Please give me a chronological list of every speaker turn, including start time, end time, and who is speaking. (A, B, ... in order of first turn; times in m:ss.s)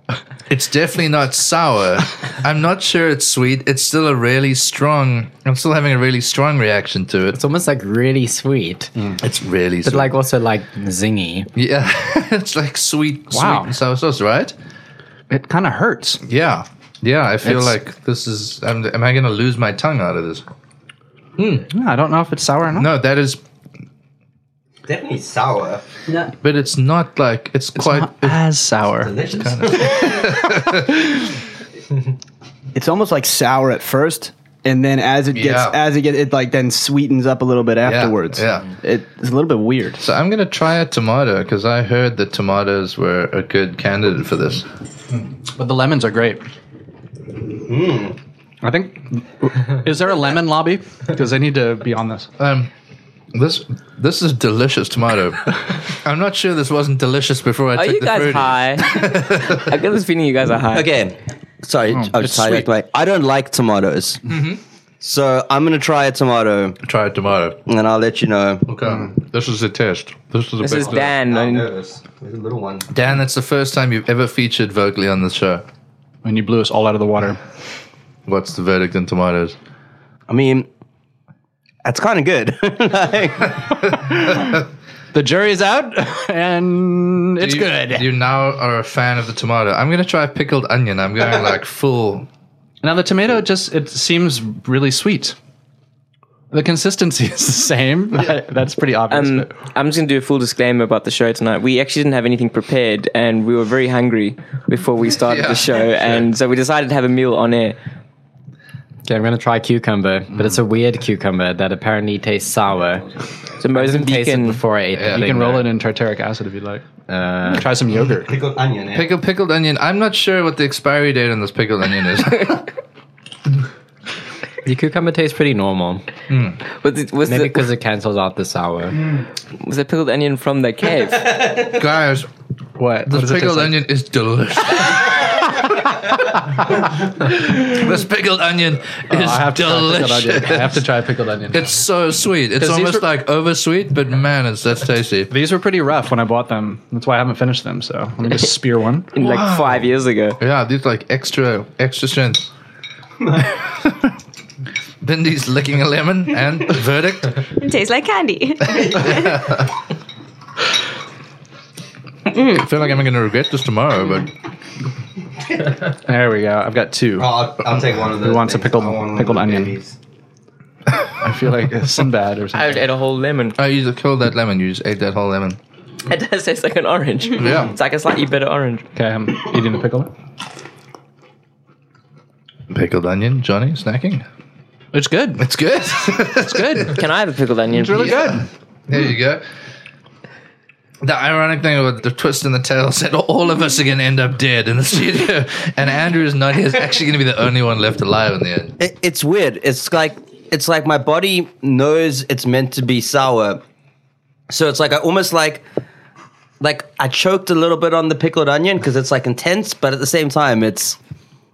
0:00.5-0:07.4 A
0:07.3-0:08.9 B
0:09.2-0:10.1 A
0:09.8-0:11.5 B
0:11.5-0:14.5 A
0:13.3-0:13.7 C
0:15.3-0:16.2 C
0:16.3-0:20.4 A
0:21.4-0:21.6 A
0:21.7-0:22.9 C
0:22.7-0:23.4 A
0:24.8-0:25.8 D
0:26.4-0:28.4 A
0:27.8-0:29.3 C
0:29.0-0:30.1 D
0:29.3-0:31.0 A
0:32.7-0:40.0 E
0:35.3-0:35.8 A
0:37.8-0:38.7 A
0:40.0-0:44.6 A
0:45.5-0:46.4 C
0:47.7-0:48.1 D
0:48.6-0:52.3 C
0:52.4-0:52.7 A
0:53.3-0:59.6 A
0:57.7-1:00.9 F
1:00.7-1:04.2 D
1:02.2-1:02.6 C
1:04.3-1:04.6 A
1:05.0-1:06.8 D
1:06.8-1:07.6 A
1:07.6-1:08.6 D
1:08.7-1:11.1 A
1:10.6-1:11.7 F
1:11.1-1:12.9 D
1:12.9-1:15.6 A
1:16.2-1:17.4 C
1:18.2-1:19.6 A
1:20.3-1:20.7 D
1:21.8-1:23.5 D
1:25.1-1:28.1 C
1:27.4-1:32.3 A
1:32.8-1:35.4 C
1:36.5-1:39.6 C
1:39.1-1:47.8 F
1:45.2-1:46.2 A
1:49.0-1:53.1 B
1:53.6-1:54.6 F
1:53.6-1:55.6 B
1:55.0-1:55.6 A
1:55.1-1:56.8 C
1:57.1-1:57.7 B
1:57.4-1:58.4 C
1:58.2-1:59.2 D
1:58.9-2:02.7 A
2:04.6-2:06.0 B
2:06.3-2:06.6 A
2:06.8-2:07.7 F
2:07.2-2:09.0 B
2:09.6-2:11.5 F
2:11.6-2:12.3 A
2:12.8-2:13.8 C
2:13.1-2:15.5 A
2:17.2-2:20.8 A
2:19.1-2:21.8 C
2:21.5-2:25.3 A
2:22.6-2:23.1 C
2:25.3-2:29.1 C
2:29.1-2:30.4 F
2:29.2-2:32.5 A
2:33.7-2:34.1 A
2:35.0-2:37.4 A
2:37.6-2:39.5 G
2:38.9-2:39.6 A
2:42.3-2:42.6 G
2:42.4-2:44.3 A
2:45.9-2:49.8 C
2:47.2-2:49.9 D
2:51.2-2:52.8 C
2:52.5-2:53.6 F
2:53.6-2:55.6 A
2:56.1-2:58.8 F
2:57.4-2:57.7 A
2:58.9-3:00.1 C
3:02.7-3:04.2 A
3:04.9-3:05.4 C
3:05.4-3:07.0 A
3:06.4-3:07.0 C
3:06.9-3:08.3 F
3:07.7-3:08.5 C
3:07.9-3:09.4 A
3:11.0-3:18.7 A
3:18.8-3:23.6 D
3:24.5-3:25.6 D
3:26.6-3:31.0 D